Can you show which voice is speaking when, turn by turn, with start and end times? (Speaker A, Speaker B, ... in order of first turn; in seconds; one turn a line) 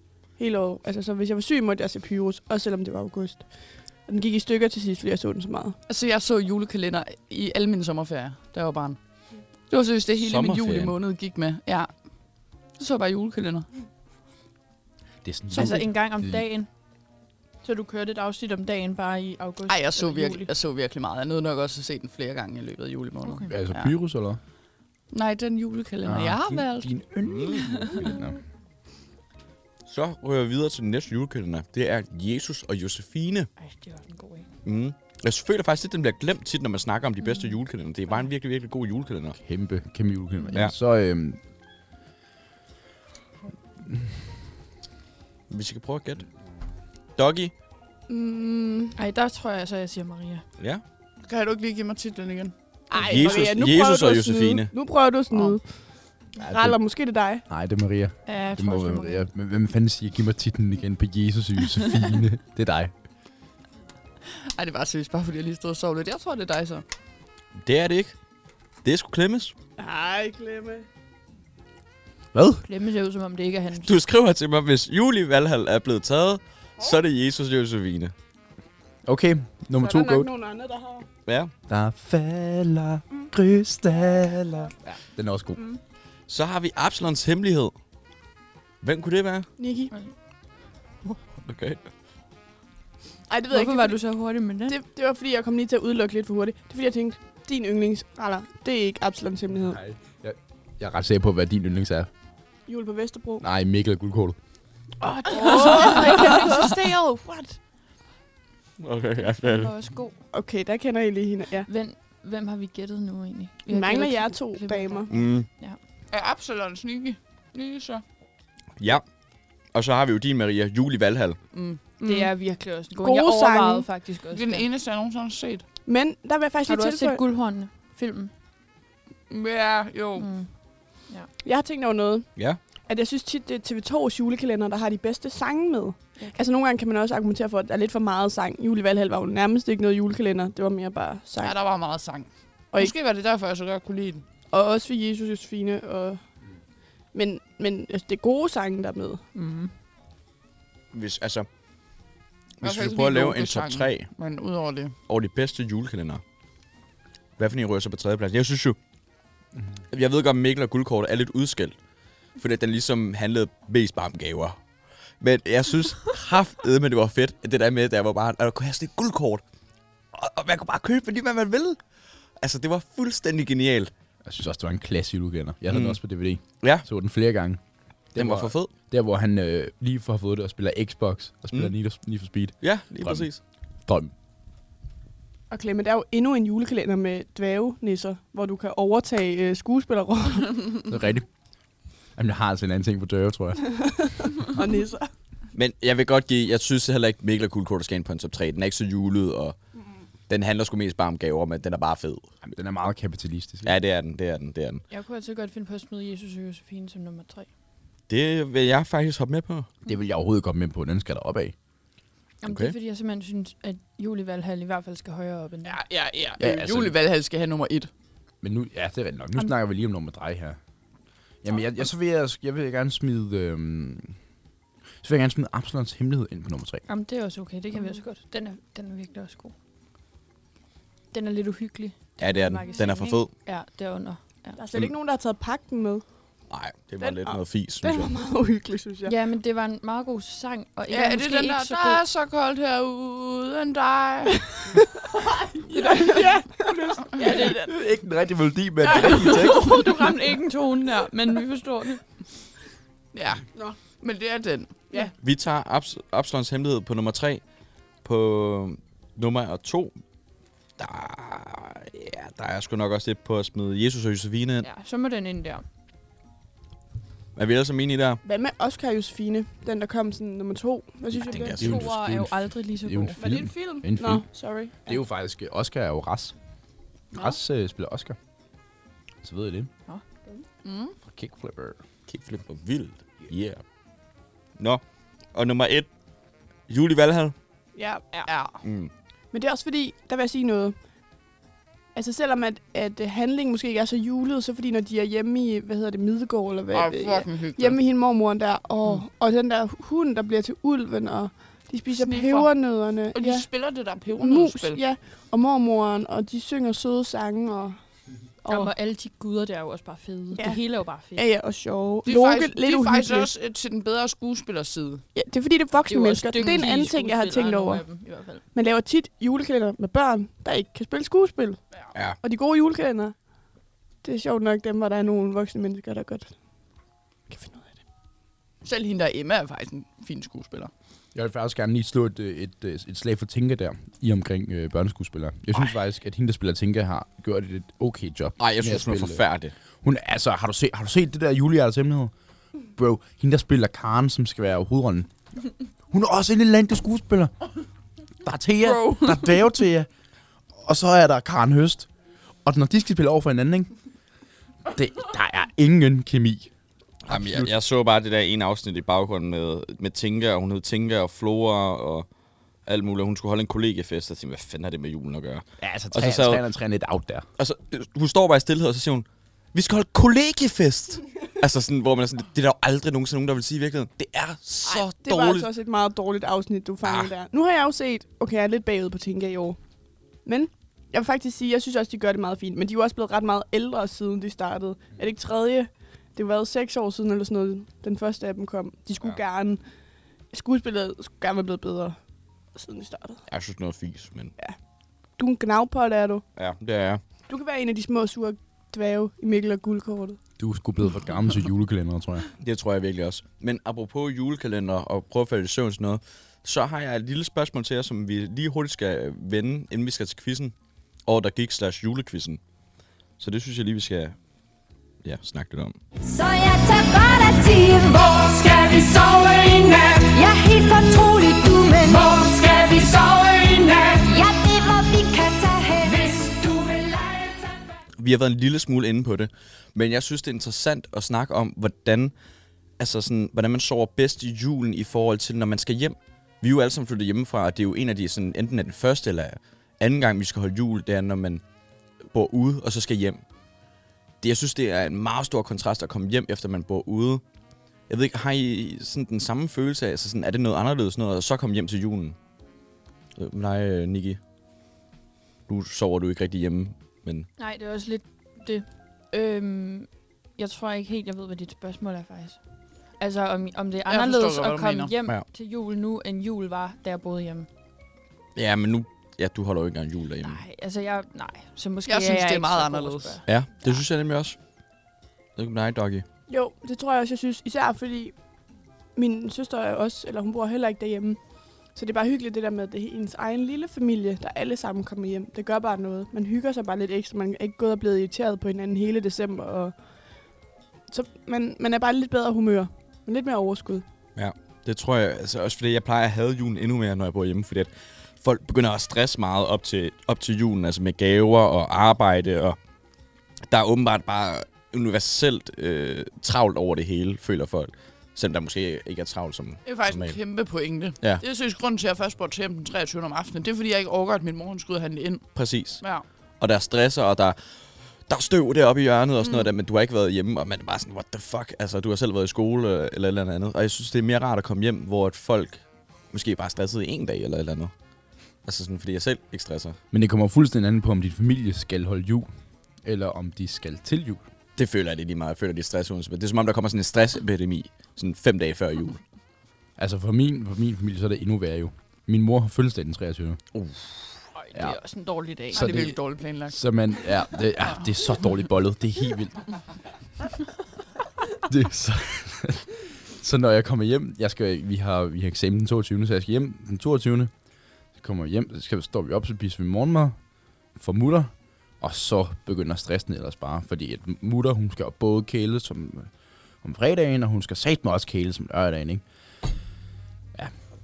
Speaker A: 0.4-5.8
Speaker B: 5.9-9.0
Speaker B: 9.7-11.9
Speaker C: 10.2-10.9
Speaker B: 12.8-13.7
Speaker D: 15.2-16.4
Speaker E: 15.5-16.7
Speaker E: 17.6-20.5
Speaker B: 19.7-23.9
Speaker E: 23.2-23.5
Speaker D: 23.5-24.4
Speaker B: 25.1-26.9
Speaker D: 26.1-28.4
Speaker C: 27.3-27.9
Speaker C: 29.9-33.5
Speaker E: 33.6-34.5
Speaker C: 34.6-39.4
Speaker E: 37.2-37.6
Speaker D: 39.4-41.4
Speaker C: 45.5-46.3
Speaker C: 47.2-47.5
Speaker A: 48.1-49.0
Speaker E: 49.0-50.5
Speaker B: 51.2-52.5
Speaker A: 52.9-55.6
Speaker C: 53.0-54.7
Speaker A: 56.4-57.4
Speaker D: 56.4-56.8
Speaker D: 57.5-62.9
Speaker E: 58.3-59.3
Speaker B: 64.5-66.8
Speaker C: 67.6-68.2
Speaker C: 68.8-69.5
Speaker A: 69.8-70.9
Speaker D: 72.3-72.6
Speaker E: 72.7-73.9
Speaker C: 73.8-78.1
Speaker D: 79.1-80.3
Speaker A: 79.8-81.1
Speaker C: 81.3-81.5
Speaker D: 81.7-85.6
Speaker C: 86.3-87.7
Speaker C: 88.8-89.5
Speaker A: 89.6-89.9
Speaker C: 91.4-91.8
Speaker A: 93.3-94.0
Speaker E: 93.5-94.8
Speaker A: 94.7-99.8
Speaker D: 99.7-102.1
Speaker A: 102.7-103.5
Speaker D: 103.4-104.4
Speaker E: 105.0-107.6
Speaker A: 105.3-106.7
Speaker B: 105.4-106.0
Speaker C: 108.8-109.7
Speaker E: 109.2-110.2
Speaker A: 110.3-111.7
Speaker E: 111.7-115.8
Speaker A: 113.7-115.1
Speaker C: 115.1-115.5
Speaker B: 116.1-118.0
Speaker C: 118.8-119.0
Speaker C: 119.7-121.4
Speaker B: 121.5-121.8
Speaker A: 122.0-122.3
Speaker E: 122.0-124.7
Speaker A: 123.0-123.9
Speaker B: 124.3-125.6
Speaker A: 125.9-127.2
Speaker E: 126.7-128.3
Speaker B: 129.3-130.3
Speaker E: 130.2-130.5
Speaker A: 131.4-132.3
Speaker A: 132.9-141.6
Speaker B: 141.4-144.2
Speaker A: 144.5-146.2
Speaker A: 147.1-149.2
Speaker E: 149.3-149.7
Speaker C: 150.9-151.5
Speaker C: 152.6-154.1
Speaker B: 152.6-154.9
Speaker C: 155.1-156.2
Speaker C: 157.4-158.8
Speaker C: 159.9-161.8
Speaker C: 162.4-164.6
Speaker C: 165.2-169.4
Speaker C: 170.1-171.8
Speaker C: 172.4-173.9
Speaker D: 174.2-177.6
Speaker C: 175.7-176.0
Speaker C: 176.6-176.8
Speaker D: 178.1-183.3
Speaker C: 178.2-178.7
Speaker C: 182.6-183.4
Speaker D: 183.9-184.1
Speaker A: 185.5-190.8
Speaker D: 190.9-191.3
Speaker D: 192.2-193.6
Speaker A: 193.7-195.1
Speaker C: 195.5-199.6
Speaker C: 200.3-202.3
Speaker D: 202.4-203.8
Speaker C: 203.7-204.8
Speaker E: 204.9-207.5
Speaker C: 208.1-209.7
Speaker D: 209.8-211.6
Speaker E: 212.4-215.8
Speaker C: 212.5-212.8
Speaker B: 215.7-217.9
Speaker D: 216.4-217.0
Speaker D: 218.4-220.6
Speaker D: 221.4-224.2
Speaker D: 225.0-226.8
Speaker E: 226.9-229.5
Speaker E: 231.1-234.6
Speaker C: 232.2-233.3
Speaker A: 234.6-236.0
Speaker C: 236.5-238.2
Speaker A: 237.0-239.1
Speaker E: 239.1-242.0
Speaker B: 240.9-244.5
Speaker A: 245.8-247.7
Speaker E: 247.2-247.6
Speaker D: 247.3-250.0
Speaker E: 248.9-252.0
Speaker B: 253.1-254.9
Speaker C: 255.2-257.4
Speaker C: 258.0-259.9
Speaker C: 260.8-264.7
Speaker E: 264.6-265.6
Speaker C: 267.4-268.2
Speaker A: 268.2-271.7
Speaker C: 271.1-271.9
Speaker D: 271.3-274.3
Speaker E: 271.6-273.2
Speaker A: 273.2-275.0
Speaker D: 274.9-276.3
Speaker D: 277.1-278.2
Speaker D: 279.2-279.7
Speaker B: 280.6-281.0
Speaker D: 281.1-281.8
Speaker C: 282.1-283.6
Speaker C: 285.3-285.9
Speaker C: 286.7-287.3
Speaker A: 287.8-288.3
Speaker B: 288.3-288.6
Speaker C: 288.6-288.9
Speaker A: 289.3-290.8
Speaker A: 291.9-303.5
Speaker B: 296.7-297.8
Speaker B: 301.9-302.6
Speaker B: 303.1-304.8
Speaker A: 304.2-307.8
Speaker A: 308.4-308.7
Speaker E: 308.5-311.2
Speaker A: 310.4-310.6
Speaker A: 311.1-313.3
Speaker B: 312.1-315.0
Speaker A: 315.1-317.9
Speaker E: 315.9-318.4
Speaker A: 318.5-321.6
Speaker C: 321.9-322.2
Speaker A: 322.2-323.1
Speaker A: 324.0-326.3
Speaker A: 327.3-327.8
Speaker B: 328.6-330.7
Speaker D: 331.1-339.2
Speaker C: 338.4-339.5
Speaker D: 339.8-342.1
Speaker D: 342.8-345.1
Speaker D: 345.9-347.3
Speaker D: 348.2-349.9
Speaker B: 348.6-349.3
Speaker D: 350.6-351.9
Speaker D: 352.4-353.7
Speaker D: 354.7-356.5
Speaker C: 357.1-362.1
Speaker D: 357.1-357.5
Speaker C: 362.7-366.4
Speaker D: 365.6-367.3
Speaker C: 367.4-375.5
Speaker A: 374.6-379.6
Speaker C: 376.8-377.1
Speaker A: 380.2-389.6
Speaker A: 390.3-392.0
Speaker A: 392.6-393.2
Speaker C: 393.3-394.3
Speaker A: 395.2-396.2
Speaker C: 396.4-397.0
Speaker A: 397.3-400.2
Speaker D: 400.4-402.3
Speaker C: 402.4-410.5
Speaker C: 411.1-412.4
Speaker C: 413.2-414.1
Speaker C: 415.0-415.8
Speaker F: 416.1-427.5
Speaker C: 428.0-432.1
Speaker C: 432.8-441.4
Speaker C: 442.1-443.2
Speaker C: 444.2-447.2
Speaker C: 447.9-452.2
Speaker C: 453.2-454.2
Speaker C: 455.5-457.3
Speaker E: 457.4-462.4
Speaker E: 463.0-467.5
Speaker B: 463.9-464.9
Speaker C: 468.4-470.4
Speaker E: 470.2-473.8
Speaker B: 471.9-473.2
Speaker C: 473.3-474.4
Speaker C: 475.4-476.0
Speaker A: 476.3-478.1
Speaker A: 479.0-481.2
Speaker A: 481.8-489.7
Speaker A: 490.9-493.9
Speaker C: 494.2-502.6
Speaker C: 503.5-510.2
Speaker B: 509.6-515.3
Speaker C: 515.4-515.8
Speaker B: 515.8-516.0
Speaker C: 516.4-517.4
Speaker C: 518.1-527.7
Speaker C: 528.5-529.8
Speaker D: 529.9-532.3
Speaker D: 532.8-534.2
Speaker C: 534.6-539.0
Speaker D: 539.8-543.4
Speaker C: 543.5-544.1
Speaker E: 544.4-545.8
Speaker B: 545.5-546.8
Speaker D: 545.5-549.5
Speaker D: 551.4-557.3
Speaker D: 558.0-560.2
Speaker D: 560.8-566.1
Speaker D: 566.6-569.0